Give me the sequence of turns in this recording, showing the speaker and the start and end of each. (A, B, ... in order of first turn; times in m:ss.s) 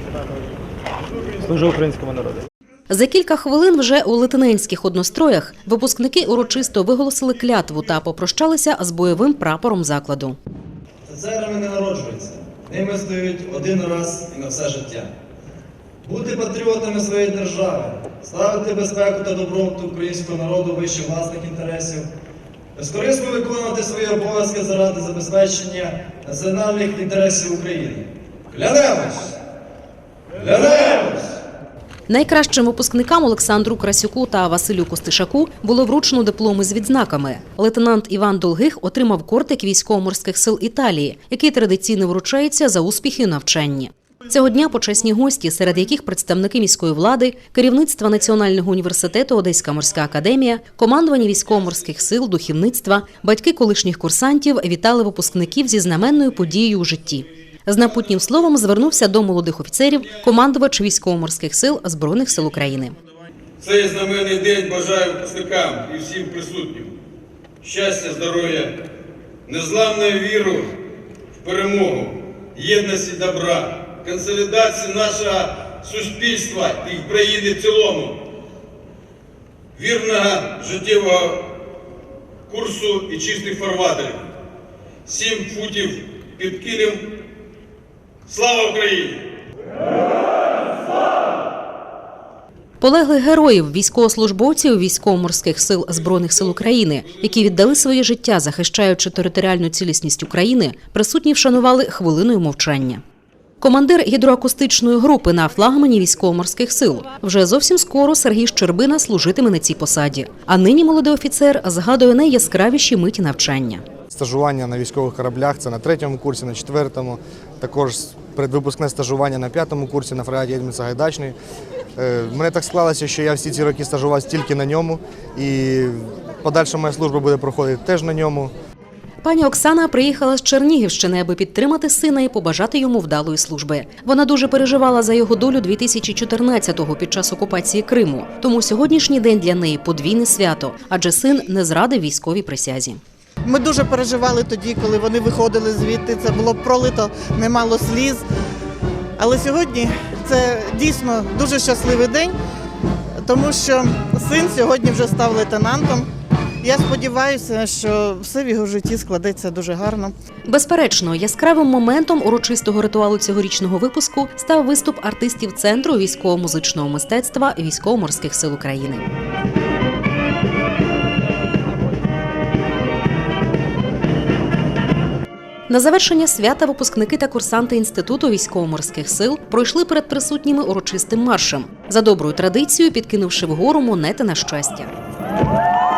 0:01.8-0:02.4 A
0:02.9-0:10.4 B
0:11.0-0:15.1 A
0:16.0-0:22.1 A
0:22.7-0:29.4 A
0:30.4-0:31.4 A
0:32.1-1:02.9 B
1:03.6-1:06.9 C
1:07.6-1:08.8 C
1:09.4-1:10.7 C
1:11.4-1:18.2 C
1:19.8-1:21.5 C
1:22.5-1:24.3 C
1:25.0-1:27.1 C
1:28.3-1:29.2 C
1:32.8-1:43.0 B
1:43.6-1:53.8 B
1:54.1-2:01.4 D
2:02.0-2:08.5 D
2:09.2-2:23.0 B
2:23.4-2:28.2 E
2:29.2-2:32.4 E
2:33.2-2:36.1 E
2:36.6-2:40.1 E
2:40.5-2:49.0 B
2:55.7-3:04.9 B